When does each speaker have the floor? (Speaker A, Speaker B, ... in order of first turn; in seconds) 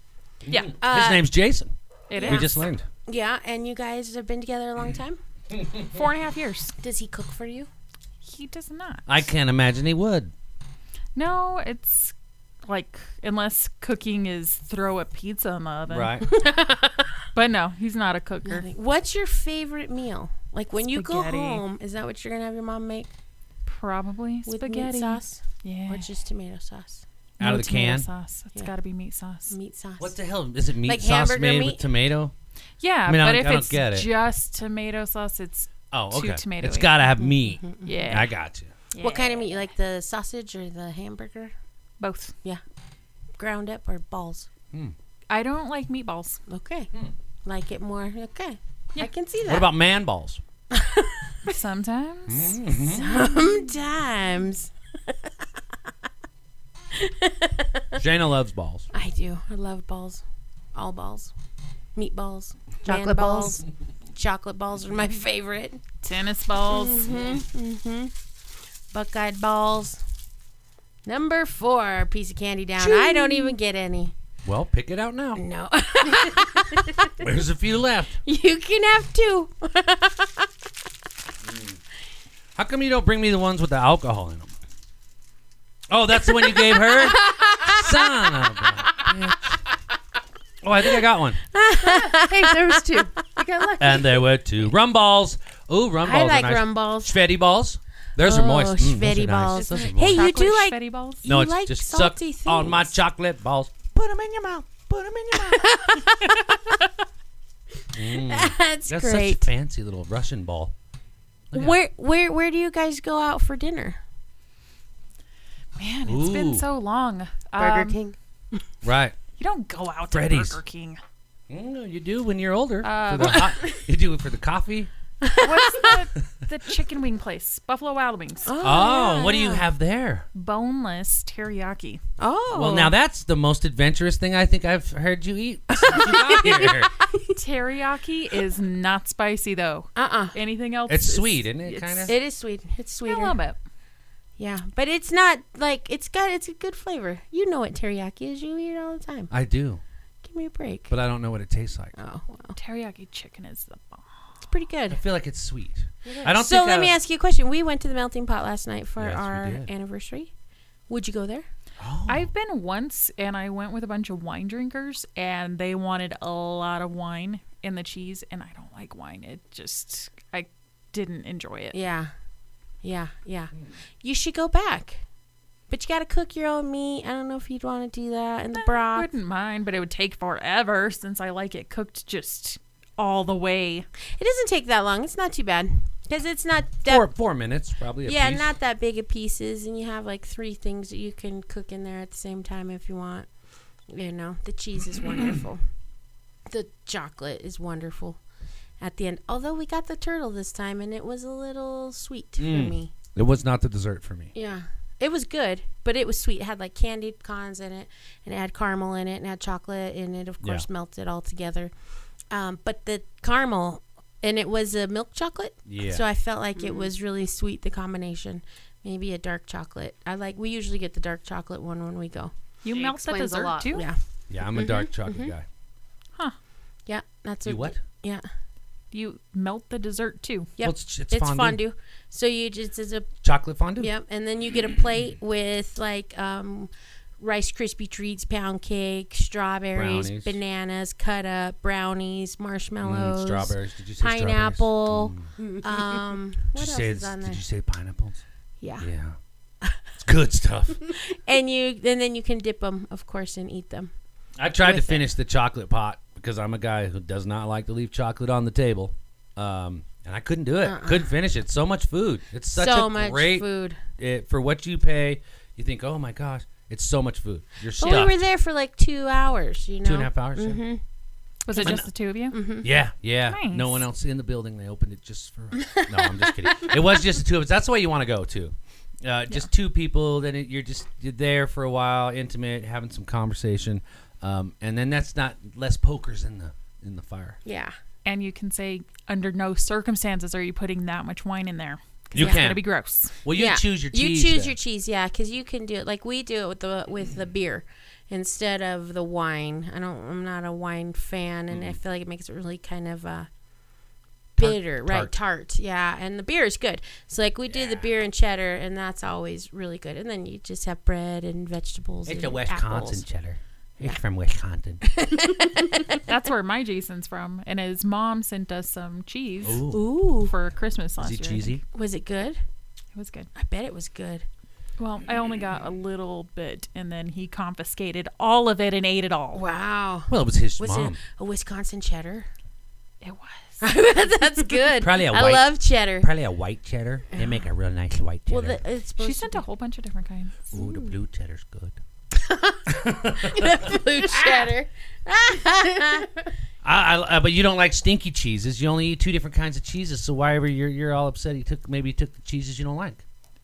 Speaker A: 0.5-2.9, 9.1-10.3, 15.9-16.3, 27.4-28.1, 30.0-32.3, 33.1-34.1, 35.9-38.7, 49.5-50.4, 52.3-53.3, 58.0-58.9, 72.8-73.5, 74.5-75.4, 77.1-78.2, 81.5-81.7, 82.6-84.5, 85.9-89.4, 90.6-91.4, 93.8-100.3, 101.2-105.8, 107.9-110.7, 111.5-111.8, 116.1-116.6, 118.8-119.2, 120.1-120.6, 121.5-124.9, 128.6-130.3, 132.5-136.9, 140.9-142.1, 149.3-149.8, 150.9-152.0, 154.9-157.0, 159.0-159.7, 161.8-162.3, 186.9-188.5, 202.4-204.3, 215.7-216.0, 224.3-225.4, 227.4-227.8, 230.6-231.6, 233.2-233.9, 239.7-240.4, 242.8-245.3, 246.5-248.2, 248.8-249.2, 250.0-250.8, 254.4-268.2, 269.8-270.6, 271.6-271.9, 272.6-287.4, 292.1-292.6, 293.2-294.6, 301.5-301.8, 304.4-305.2, 307.4-307.9, 312.1-314.8, 319.4-319.9, 321.0-321.6, 330.1-331.0, 334.8-338.6, 340.5-341.8, 342.7-344.5, 346.6-353.0
Speaker B: 0.5-0.7, 2.1-2.6, 5.9-6.7, 8.2-9.2, 11.1-12.1, 12.6-16.2, 17.3-18.7, 20.9-21.6, 23.7-26.1, 27.4-29.6, 32.8-37.0, 37.9-38.3, 38.9-39.6, 42.0-42.3, 45.3-46.4, 51.5-52.5, 66.0-67.2, 99.5-101.3, 115.8-118.0, 119.4-121.0, 122.8-123.5, 125.4-128.5, 130.3-132.0, 137.3-142.2, 143.1-143.6, 152.6-154.0, 162.1-171.8, 178.5-183.9, 222.6-223.8, 228.9-230.5, 267.8-268.1, 271.4-272.4, 273.3-273.8, 288.1-293.1, 316.1-321.6, 322.9-323.3, 324.8-329.4, 333.0-333.6, 339.0-340.4
Speaker C: 0.8-1.2, 2.2-2.5, 3.1-5.2, 6.8-7.7, 16.3-17.0, 18.4-23.1, 24.4-27.0, 29.5-30.2, 30.8-31.8, 37.2-37.9, 39.0-41.5, 43.4-44.5, 46.5-46.9, 47.4-49.7, 50.7-51.5, 52.7-54.7, 57.0-58.0, 58.9-60.2, 60.7-61.3, 62.0-63.6, 64.1-65.8, 66.6-68.1, 68.9-70.0, 71.1-74.1, 75.4-77.2, 78.2-80.5, 86.4-88.4, 91.5-92.6, 96.0-97.2, 98.2-103.0, 105.5-106.8, 108.1-109.5, 111.5-114.0, 125.2-125.9, 128.4-129.6, 132.2-132.9, 135.9-136.7, 139.9-140.4, 142.1-143.4, 144.4-149.3, 150.2-150.9, 151.9-152.6, 154.5-155.0, 156.2-160.3, 160.9-161.4, 171.7-172.1, 172.8-175.0, 175.7-179.1, 184.2-187.1, 188.1-193.3, 193.9-195.6, 196.5-198.2, 198.8-202.9, 204.3-211.7, 212.3-222.3, 223.7-224.0, 224.5-225.3, 226.9-228.3, 230.6-233.1, 233.8-247.4, 248.6-248.9, 250.9-253.9, 254.6-255.1, 260.6-261.1, 262.5-263.8, 267.8-270.8, 271.5-271.8, 272.3-272.7, 275.6-276.7, 287.4-287.7, 292.2-292.5, 293.3-303.3, 304.4-313.0, 314.8-316.0, 319.7-320.3, 321.7-322.4, 323.4-324.2, 329.3-332.3, 333.6-336.1, 338.3-339.4, 340.6-340.9, 342.1-346.3
Speaker D: 62.8-63.6, 91.8-94.2, 117.6-118.2, 216.6-216.9, 222.7-223.8, 245.4-245.9